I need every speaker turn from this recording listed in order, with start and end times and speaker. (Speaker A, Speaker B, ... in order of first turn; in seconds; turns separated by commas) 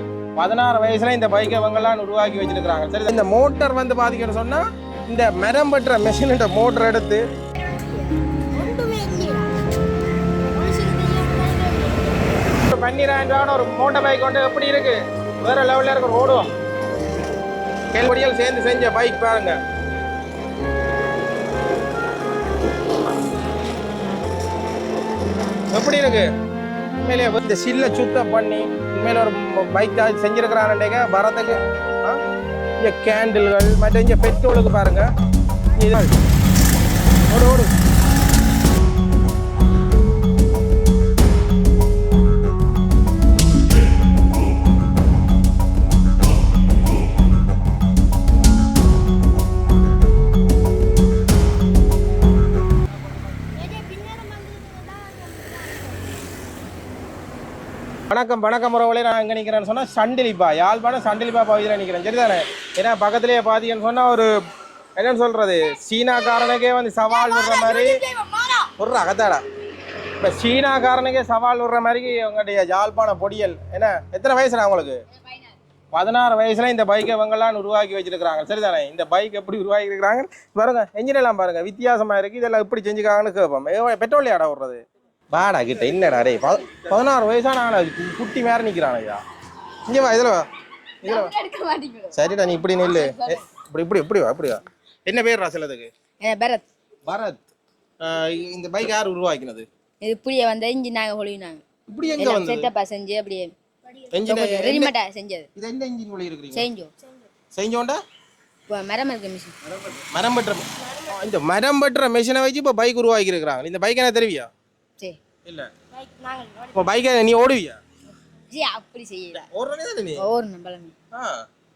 Speaker A: 0.4-7.2, Speaker B: 7.5-9.6, Speaker B: 10.5-12.5, Speaker A: 12.5-16.5, Speaker A: 17.9-19.6, Speaker A: 25.7-26.3, Speaker A: 27.0-32.2, Speaker A: 32.8-35.1, Speaker A: 35.8-36.1, Speaker A: 37.3-37.7, Speaker B: 53.5-56.2, Speaker A: 58.1-64.4, Speaker A: 65.0-68.0, Speaker B: 67.1-68.7, Speaker A: 68.8-69.4, Speaker A: 70.2-75.0, Speaker C: 75.2-75.5, Speaker A: 75.9-89.2, Speaker A: 89.9-90.5, Speaker C: 91.0-93.4, Speaker A: 91.0-91.3, Speaker A: 92.1-95.9, Speaker C: 96.2-96.7, Speaker A: 97.1-97.4, Speaker A: 98.0-99.7, Speaker C: 100.0-101.6, Speaker A: 101.9-102.7, Speaker C: 102.2-103.5, Speaker B: 103.9-104.1, Speaker A: 104.1-104.9, Speaker C: 104.3-105.5, Speaker A: 105.6-106.7, Speaker C: 106.5-106.9, Speaker B: 107.0-107.3, Speaker A: 107.5-108.0, Speaker C: 108.7-109.6, Speaker A: 109.9-114.5, Speaker B: 110.8-111.2, Speaker A: 115.5-115.7, Speaker B: 115.9-116.9, Speaker A: 116.8-117.8, Speaker C: 118.5-119.5, Speaker A: 119.3-120.3, Speaker C: 120.2-120.9, Speaker A: 121.1-121.5